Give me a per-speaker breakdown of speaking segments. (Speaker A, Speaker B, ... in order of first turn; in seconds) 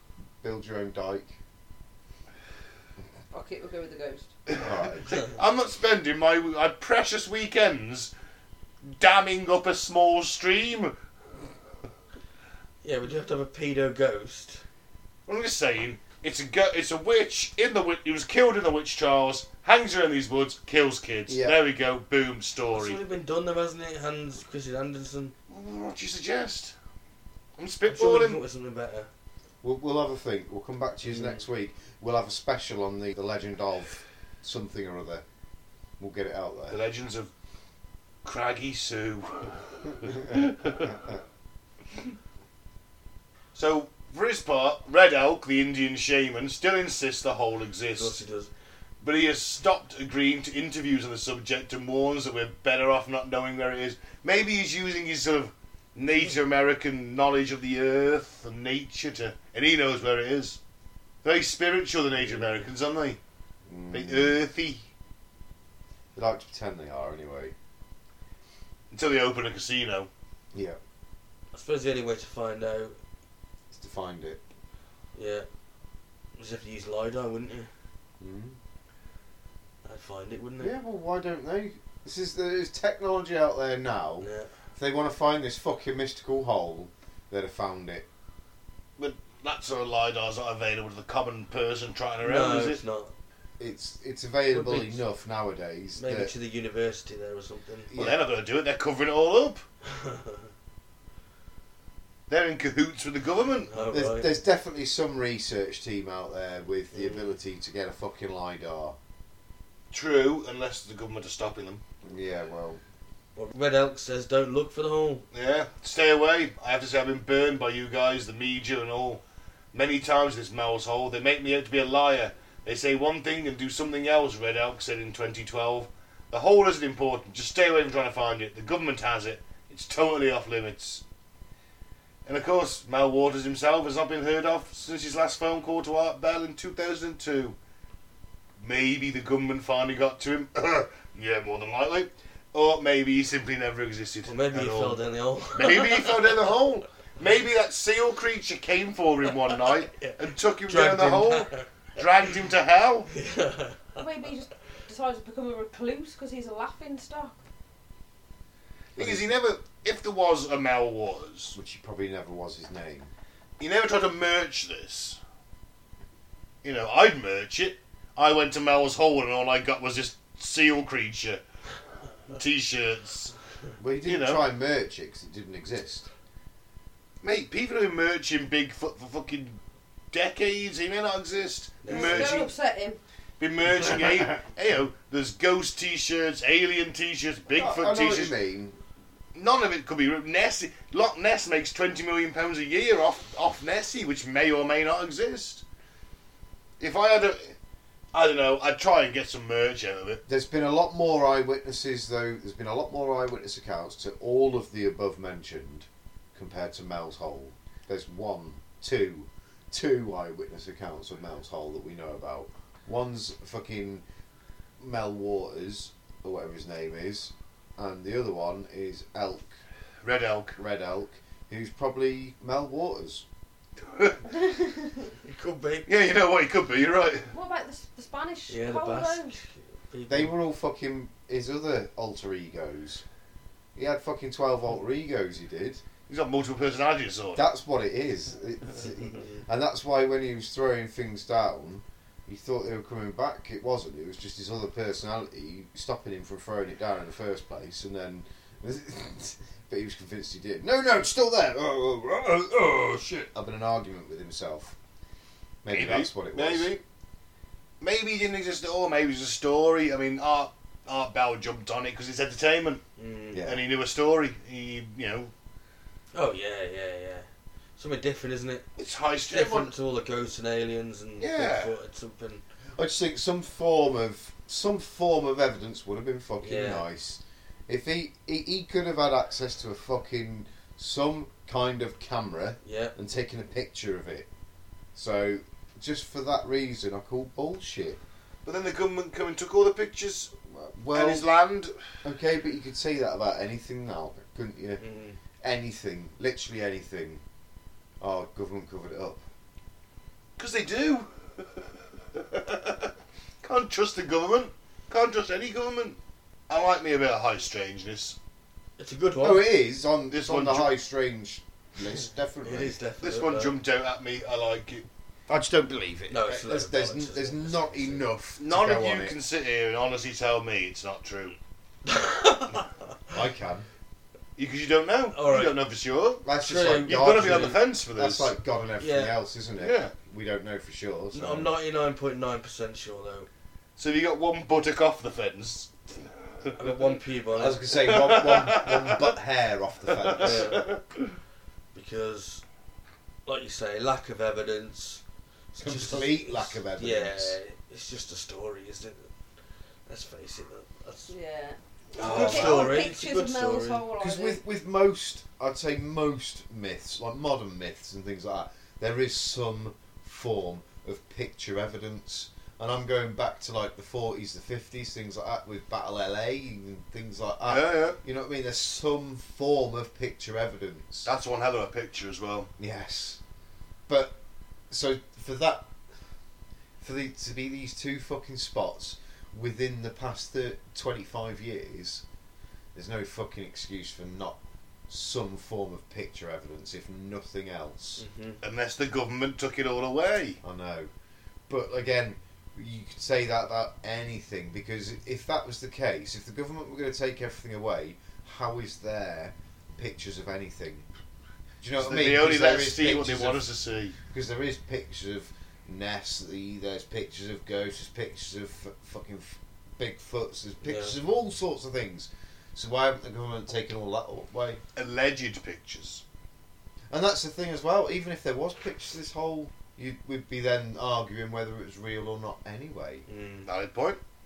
Speaker A: 0.4-1.3, 4.6-5.2, 21.3-21.6, 29.6-35.2, 36.0-36.8, 63.7-64.4, 66.1-67.5, 70.5-70.8, 73.7-74.4, 78.2-78.6, 80.6-88.0, 93.6-96.3, 97.9-98.2, 103.9-109.0, 112.0-112.8, 158.9-159.4, 161.5-163.1, 173.8-176.1, 187.5-188.8, 200.3-214.0, 214.8-219.5, 220.6-223.2, 230.1-233.0, 233.7-235.8, 237.3-254.7, 255.6-256.7, 263.3-263.6, 272.8-284.3, 284.9-288.0, 290.5-291.3, 292.0-294.8, 295.4-297.2, 298.0-299.2, 309.2-312.8, 315.3-319.2, 323.1-323.7, 326.2-331.5, 337.3-340.6, 345.6-347.4, 352.0-352.7, 354.0-371.1, 372.6-373.2, 373.9-374.2, 374.7-375.7, 376.8-382.0, 382.7-388.0, 390.4-390.9, 391.5-400.9, 401.6-403.5, 404.1-414.6, 416.9-423.1
Speaker B: 3.3-4.3, 153.9-157.4, 181.9-183.0, 224.3-225.1, 227.3-229.4, 351.1-354.4
Speaker C: 4.5-8.1, 8.9-10.9, 15.3-23.0, 25.5-26.7, 27.6-28.4, 36.7-37.3, 38.2-41.0, 43.5-48.2, 49.0-60.6, 61.2-63.2, 63.9-64.9, 68.9-70.1, 89.0-92.8, 97.9-99.6, 102.3-103.7, 109.9-111.8, 115.3-119.2, 119.7-131.0, 132.2-137.6, 138.6-145.0, 145.5-153.1, 158.9-161.6, 163.6-165.2, 166.6-171.4, 172.3-173.3, 174.0-174.4, 177.2-179.6, 180.1-182.5, 183.4-188.3, 189.3-195.6, 196.8-197.5, 198.1-200.2, 220.0-220.6, 223.8-224.2, 225.8-227.3, 236.1-237.4, 255.7-256.8, 257.8-262.8, 263.4-265.3, 268.8-269.7, 271.2-271.7, 288.4-290.3, 290.9-291.8, 300.4-306.0, 306.5-308.2, 310.1-310.7, 313.0-314.9, 318.4-321.4, 324.4-326.2, 326.8-328.3, 329.6-329.9, 333.8-335.7, 337.8-339.1, 339.9-340.9, 352.0-352.4, 367.4-368.0, 371.0-372.5, 388.4-390.4, 401.8-403.9, 414.7-416.0, 423.4-424.0
Speaker D: 12.8-14.6, 22.7-25.3, 27.9-29.1, 31.1-31.4, 47.9-48.5, 62.2-62.7, 71.5-73.0, 75.1-75.5, 76.4-77.7, 79.8-80.7, 84.2-84.5, 92.2-93.1, 94.5-95.0, 96.0-97.9, 99.8-100.5, 103.7-104.3, 106.9-107.3, 113.3-115.2, 144.2-146.5, 149.5-150.1, 150.7-151.7, 153.1-154.0, 181.8-182.4, 225.2-225.9, 228.5-230.3, 263.0-263.4, 266.1-267.2, 267.8-268.7, 269.3-272.4, 276.4-276.9, 282.6-282.9, 294.8-295.2, 308.8-309.5, 312.4-313.6, 316.1-318.1, 321.8-322.7, 325.1-325.6, 326.4-327.6, 328.8-329.1, 331.1-333.3, 336.6-337.7, 340.2-340.7, 341.7-342.4, 343.2-345.0, 345.5-349.1, 349.9-351.1, 351.9-353.9, 388.0-388.4, 410.6-410.9, 423.1-423.5